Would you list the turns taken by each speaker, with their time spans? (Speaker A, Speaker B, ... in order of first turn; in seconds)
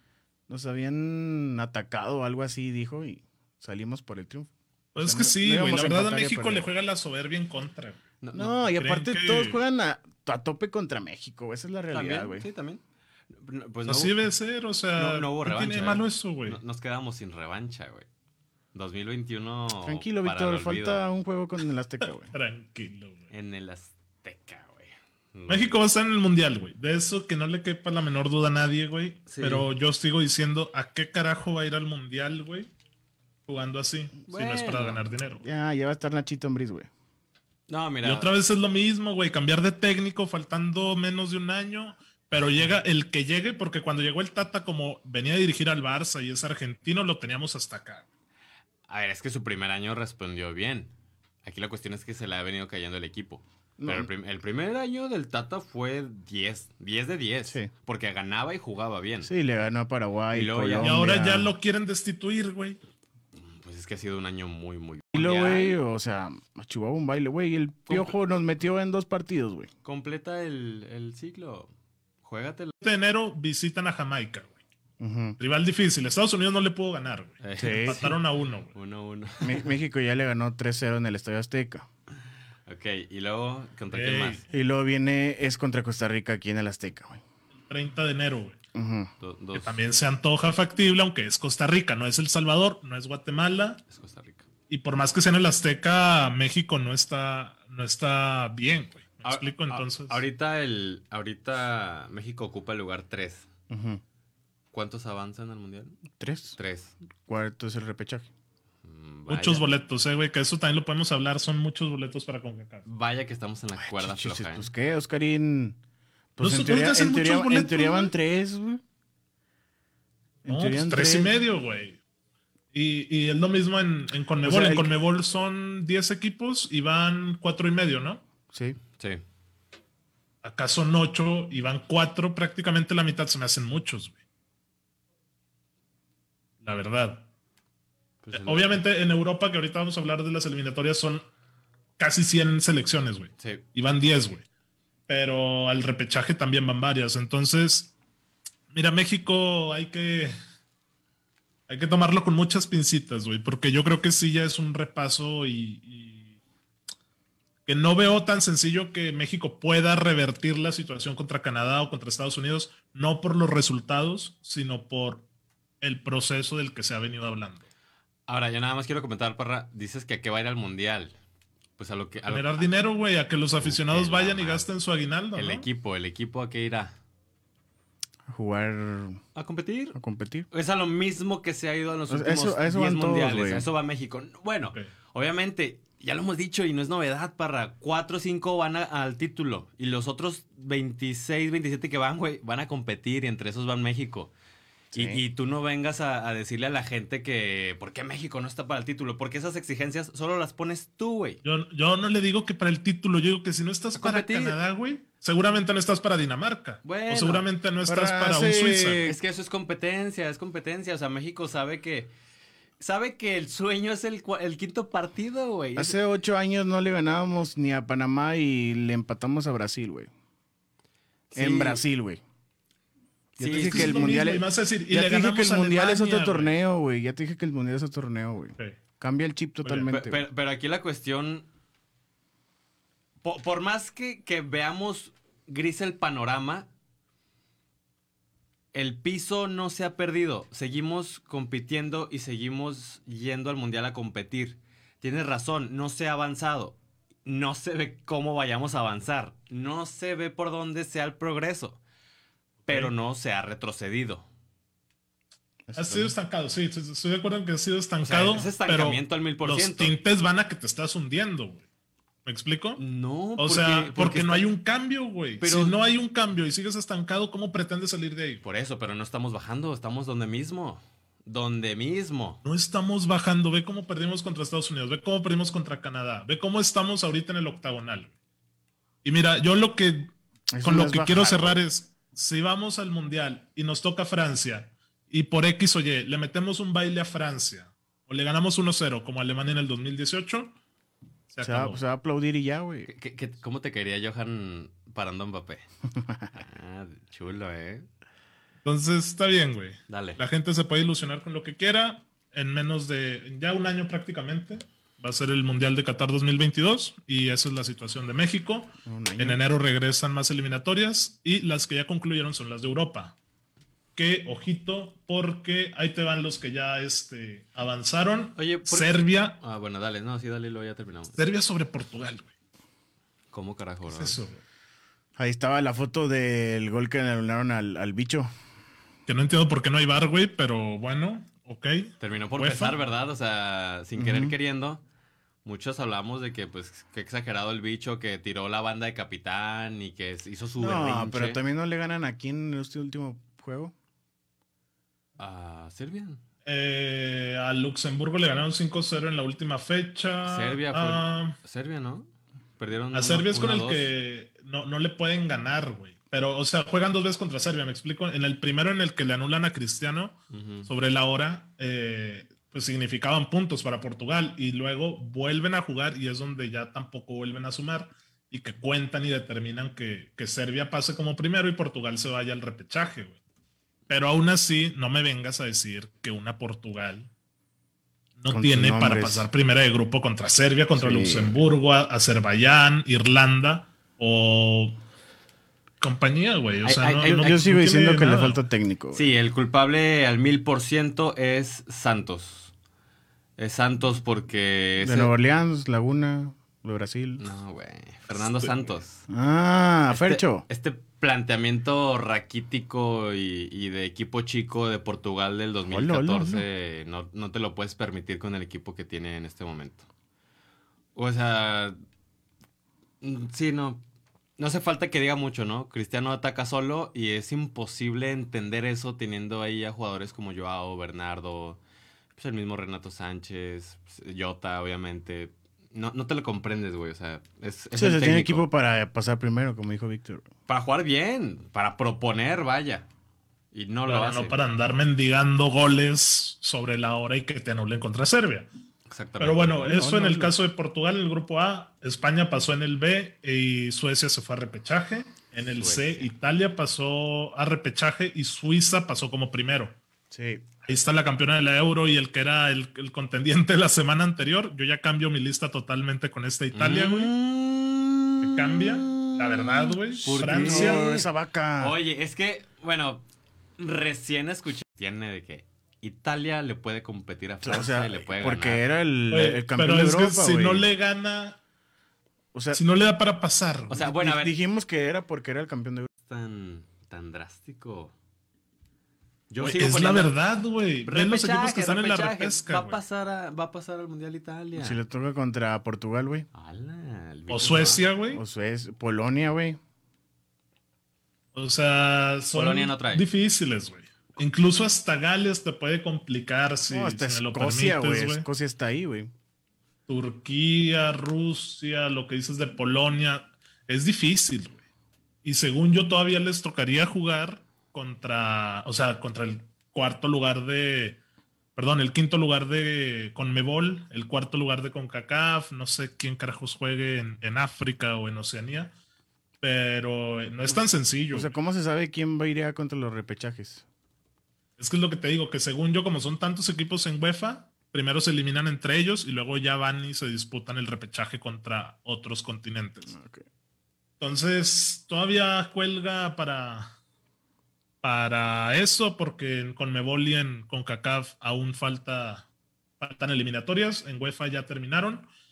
Speaker A: 0.5-6.7, 8.3-12.5, 19.8-22.3, 35.4-36.9, 53.8-54.1, 59.2-61.5, 65.1-69.7, 75.0-75.4, 77.6-78.2, 79.4-81.9, 84.5-87.2, 88.7-89.1, 103.7-104.0, 106.2-106.6, 107.2-108.3, 113.8-115.8, 116.4-118.8, 120.5-121.3, 124.4-124.9, 128.5-128.8, 178.3-179.2, 179.9-180.5, 182.1-183.7, 194.9-195.2, 207.8-209.2, 215.8-220.1, 221.3-222.2, 223.4-230.2, 255.7-256.1, 280.5-281.6, 291.4-292.9, 296.0-296.3, 308.9-309.4, 325.2-328.3, 334.0-334.4, 340.6-343.7, 378.3-379.3, 380.8-381.4, 387.1-389.1, 394.8-397.2, 399.1-400.4, 405.7-406.4, 427.7-430.3, 439.6-440.4, 450.1-450.4, 460.2-461.8, 467.4-470.7, 472.3-472.6, 473.8-475.9, 484.6-486.3, 488.1-489.6, 496.7-499.1, 520.5-523.6, 532.9-533.2
Speaker B: 5.0-8.0, 8.8-9.6, 13.9-16.6, 22.0-23.3, 25.5-32.7, 33.5-35.4, 38.0-48.1, 60.8-62.8, 72.8-74.6, 75.4-78.7, 83.9-84.5, 87.6-88.6, 89.5-93.8, 94.7-100.2, 109.3-112.8, 116.4-118.1, 120.5-122.0, 122.7-128.2, 130.4-134.2, 136.6-137.3, 138.3-141.3, 142.0-144.5, 145.1-147.9, 148.7-150.3, 151.7-156.4, 157.7-165.3, 165.8-167.7, 172.3-175.7, 201.4-209.0, 223.5-226.6, 252.7-252.9, 255.7-261.6, 262.2-262.8, 263.4-268.4, 272.4-278.1, 279.0-280.1, 280.6-290.6, 291.3-291.8, 298.6-313.2, 314.0-319.4, 321.2-322.3, 323.9-324.4, 329.1-332.8, 346.4-351.4, 352.9-373.2, 373.9-377.1, 378.2-384.8, 385.8-388.4, 398.1-398.5, 433.9-438.5, 439.2-449.8, 450.7-457.1, 458.2-460.9, 469.1-471.4, 472.5-473.9, 479.4-482.8, 487.3-488.2, 491.4-498.3, 499.9-504.6, 505.2-511.0, 511.6-518.7, 519.4-521.3, 524.6-532.9, 534.0-536.8, 537.8-542.3, 542.8-545.1
Speaker C: 8.2-8.6, 11.9-14.2, 15.0-18.1, 18.7-21.0, 23.3-25.7, 29.3-29.7, 34.3-35.0, 37.7-38.3, 48.9-50.9, 51.4-59.3, 60.3-61.0, 63.4-65.8, 67.9-68.2, 69.8-71.7, 72.2-72.7, 77.4-78.1, 78.7-79.7, 82.7-84.4, 89.2-89.8, 93.9-94.5, 99.2-103.5, 104.7-106.0, 106.5-106.9, 108.8-109.7, 112.8-114.7, 138.2-138.8, 168.3-171.1, 171.8-172.7, 173.6-174.7, 175.3-177.0, 179.3-180.0, 180.5-194.3, 194.9-201.4, 204.0-204.6, 206.8-207.5, 209.0-212.1, 212.8-216.0, 221.3-221.8, 223.4-224.1, 229.9-231.5, 233.2-236.7, 238.7-251.8, 252.7-254.3, 258.0-259.9, 262.8-264.5, 265.4-265.8, 268.4-272.4, 292.9-295.7, 296.3-297.9, 299.9-300.2, 318.4-321.2, 323.3-324.2, 332.0-334.8, 335.4-341.4, 345.2-346.2, 350.2-353.9, 360.3-360.7, 386.6-387.4, 388.9-392.5, 393.4-395.1, 397.2-399.0, 399.9-409.9, 410.9-411.8, 413.0-413.8, 414.4-421.6, 422.2-428.5, 430.5-432.9, 433.5-434.4, 438.9-439.7, 445.4-446.1, 456.5-463.1, 463.6-468.6, 473.7-474.4, 476.1-477.9, 479.3-480.1, 480.9-484.8, 486.3-487.9, 492.3-493.1